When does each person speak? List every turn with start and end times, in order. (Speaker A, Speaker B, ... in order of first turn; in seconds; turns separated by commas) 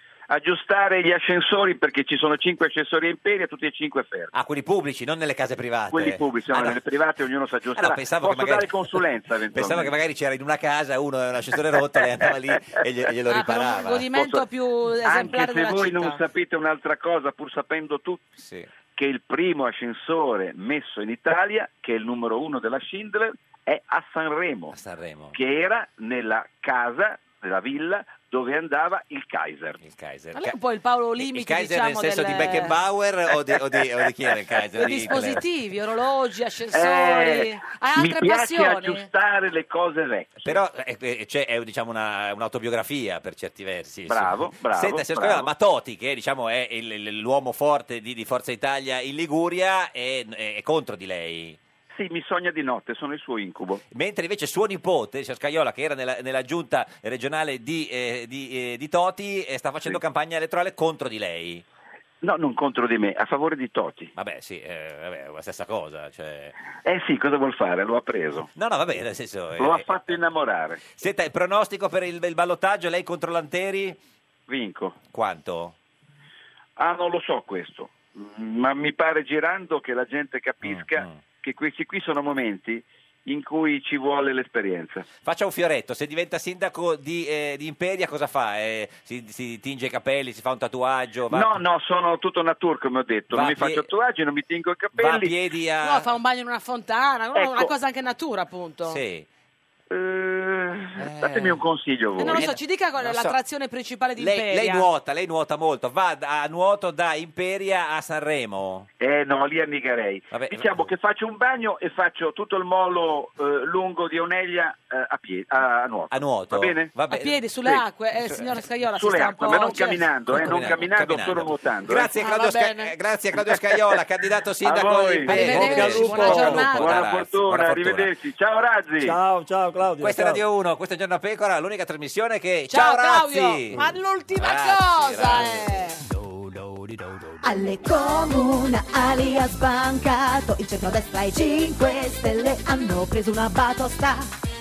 Speaker A: 0.3-4.3, Speaker B: 4.3-6.8, Speaker A: 5.9-9.9, Speaker B: 7.7-14.1, Speaker C: 13.3-16.2, Speaker A: 14.2-14.4, Speaker A: 15.0-18.3, Speaker B: 18.4-18.7, Speaker A: 18.9-24.8, Speaker B: 24.7-25.4, Speaker A: 25.3-29.8, Speaker B: 29.8-30.6, Speaker C: 30.3-32.8, Speaker B: 31.2-35.4, Speaker C: 34.8-39.1, Speaker A: 36.7-40.6, Speaker B: 40.4-51.6, Speaker A: 44.1-45.5, Speaker A: 51.9-53.8, Speaker B: 53.9-61.6, Speaker A: 62.2-64.1, Speaker B: 64.2-66.5, Speaker A: 66.8-68.5, Speaker B: 68.6-70.2, Speaker A: 69.6-70.8, Speaker B: 70.9-74.0, Speaker A: 74.5-75.0, Speaker B: 75.1-75.8, Speaker A: 76.8-85.1, Speaker B: 80.6-81.2, Speaker B: 85.2-91.6, Speaker A: 91.3-95.3, Speaker B: 93.3-93.9, Speaker B: 95.0-96.1, Speaker C: 95.8-99.0, Speaker A: 97.3-97.7, Speaker B: 98.8-99.3, Speaker A: 99.9-102.5, Speaker B: 101.0-101.6, Speaker C: 102.2-104.9, Speaker B: 102.3-103.4, Speaker B: 104.2-108.9, Speaker A: 109.0-116.9, Speaker B: 110.3-110.9, Speaker B: 116.1-118.5, Speaker C: 117.1-120.0, Speaker A: 119.0-122.1, Speaker B: 120.3-128.1, Speaker C: 122.2-122.9, Speaker A: 124.6-125.3, Speaker C: 125.3-127.1, Speaker D: 125.4-126.7, Speaker A: 126.7-129.2, Speaker D: 129.0-130.4, Speaker B: 130.0-133.8, Speaker C: 132.7-136.0, Speaker B: 134.3-135.9, Speaker E: 137.4-144.3